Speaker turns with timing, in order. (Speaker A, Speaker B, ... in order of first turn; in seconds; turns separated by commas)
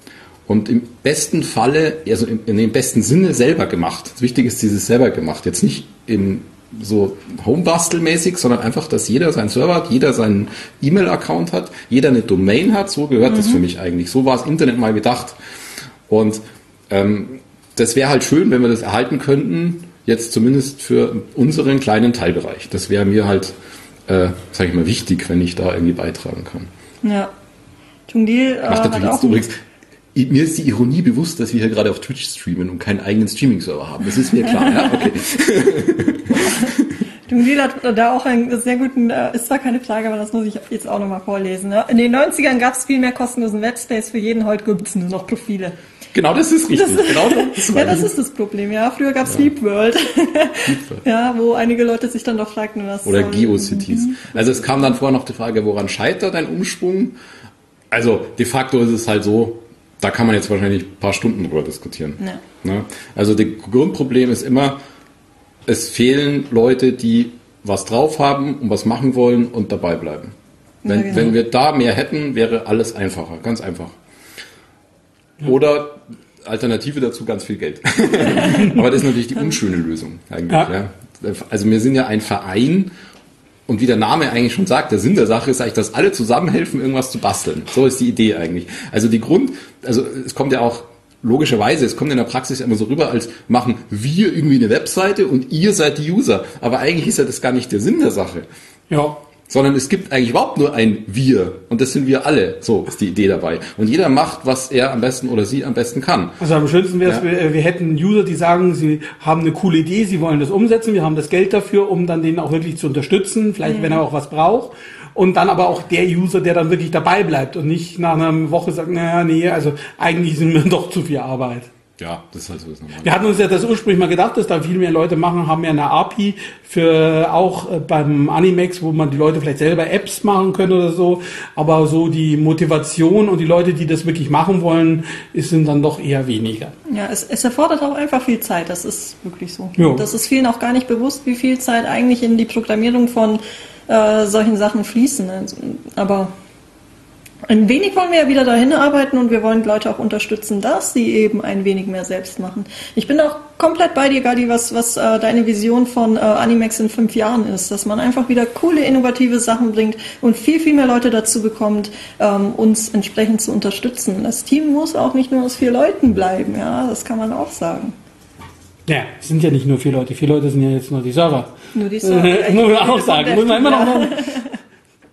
Speaker A: 0.5-15.4, Speaker B: 13.3-13.6, Speaker A: 16.1-23.5, Speaker A: 24.1-26.7, Speaker B: 27.0-27.3, Speaker B: 28.1-29.4, Speaker A: 28.7-29.5, Speaker A: 30.1-36.9, Speaker B: 36.5-36.7, Speaker B: 37.3-45.8, Speaker A: 46.1-48.1, Speaker B: 46.7-54.3, Speaker A: 50.7-51.0, Speaker A: 53.1-57.2, Speaker A: 57.9-64.8, Speaker A: 65.7-70.3, Speaker B: 70.8-71.3, Speaker A: 70.9-73.9, Speaker A: 75.4-82.9, Speaker A: 83.7-98.5, Speaker C: 98.9-99.2, Speaker A: 99.5-106.4, Speaker C: 106.4-121.7, Speaker B: 113.7-114.0, Speaker A: 122.0-123.2, Speaker C: 123.0-136.7, Speaker B: 136.9-146.3, Speaker C: 139.8-140.1, Speaker B: 147.5-167.9, Speaker C: 168.9-174.2, Speaker B: 171.7-174.6